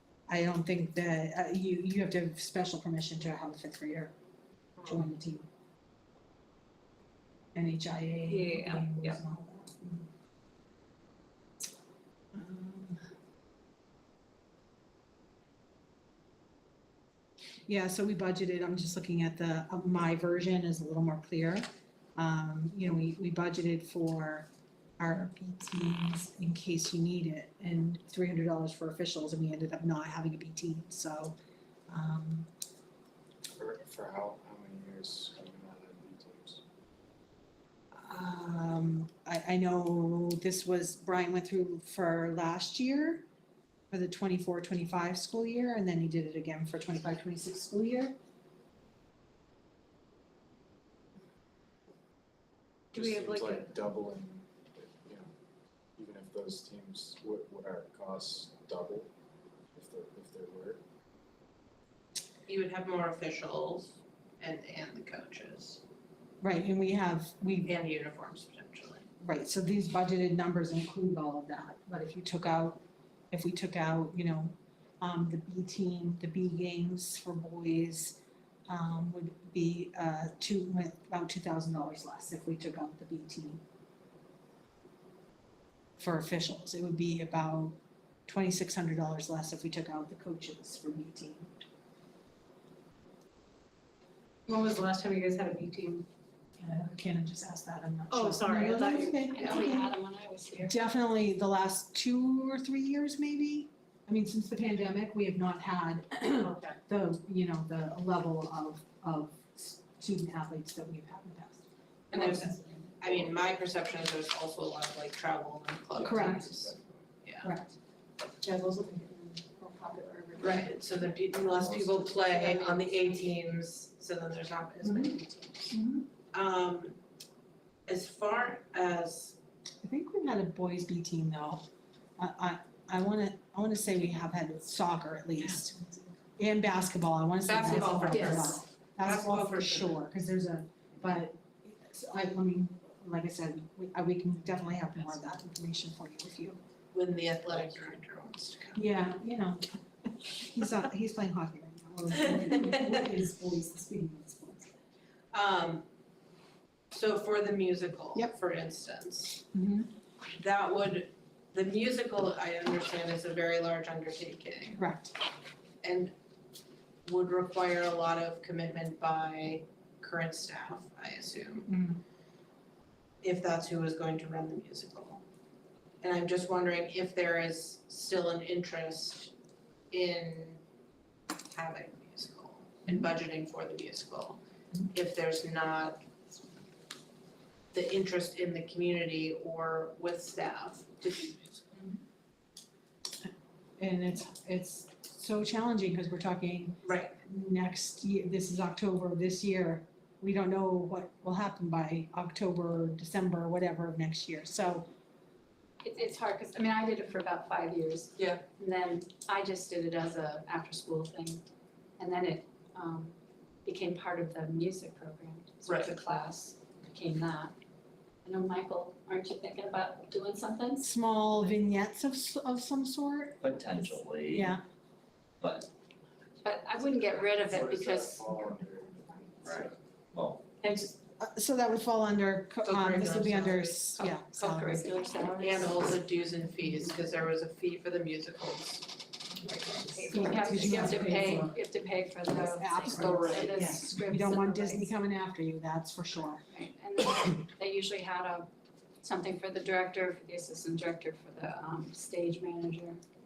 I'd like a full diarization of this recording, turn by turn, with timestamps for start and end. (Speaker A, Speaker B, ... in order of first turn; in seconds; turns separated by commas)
Speaker A: 0.3-4.1, Speaker A: 4.8-5.5, Speaker A: 7.5-10.1, Speaker B: 8.3-9.2, Speaker A: 12.3-13.0, Speaker A: 17.7-31.4, Speaker A: 31.9-32.5, Speaker C: 33.6-36.6, Speaker A: 37.9-43.2, Speaker A: 43.9-48.1, Speaker C: 52.9-55.3, Speaker B: 52.9-53.6, Speaker C: 56.0-59.1, Speaker C: 59.7-60.8, Speaker D: 62.5-65.8, Speaker A: 66.4-67.7, Speaker D: 67.6-69.1, Speaker A: 69.2-83.6, Speaker A: 86.0-91.5, Speaker A: 94.5-95.9, Speaker A: 96.6-99.9, Speaker B: 98.5-100.8, Speaker A: 100.6-111.7, Speaker B: 112.1-112.9, Speaker D: 112.1-117.5, Speaker C: 116.0-117.0, Speaker A: 116.0-116.5, Speaker A: 117.4-117.7, Speaker A: 118.4-121.4, Speaker D: 120.4-125.8, Speaker C: 121.6-122.5, Speaker A: 124.8-125.2, Speaker A: 125.7-126.0, Speaker D: 126.3-127.0, Speaker D: 127.8-129.4, Speaker A: 129.8-135.8, Speaker A: 136.4-146.6, Speaker D: 137.4-140.0, Speaker B: 138.1-138.5, Speaker D: 146.9-148.8, Speaker A: 148.7-149.7, Speaker A: 150.3-154.7, Speaker D: 155.3-155.8, Speaker D: 156.9-159.4, Speaker A: 159.5-159.9, Speaker D: 160.4-164.8, Speaker A: 164.8-165.1, Speaker D: 165.8-166.1, Speaker D: 167.1-171.7, Speaker A: 171.7-172.0, Speaker D: 173.2-175.2, Speaker D: 176.0-179.3, Speaker D: 179.9-180.6, Speaker D: 181.5-186.0, Speaker D: 187.7-191.8, Speaker A: 193.8-204.9, Speaker D: 196.8-197.2, Speaker B: 205.8-211.4, Speaker D: 208.2-208.4, Speaker B: 212.0-217.5, Speaker D: 215.7-215.9, Speaker B: 218.2-220.8, Speaker A: 220.8-223.4, Speaker E: 223.4-224.5, Speaker A: 224.3-224.6, Speaker E: 225.4-225.7, Speaker B: 226.4-228.3, Speaker C: 227.2-229.7, Speaker E: 229.4-230.4, Speaker B: 230.6-230.9, Speaker A: 231.2-235.2, Speaker D: 232.7-233.8, Speaker B: 234.0-235.8, Speaker D: 235.4-238.8, Speaker B: 239.5-244.9, Speaker A: 239.7-241.6, Speaker A: 242.5-246.4, Speaker D: 242.9-243.8, Speaker B: 246.5-248.5, Speaker B: 249.0-253.0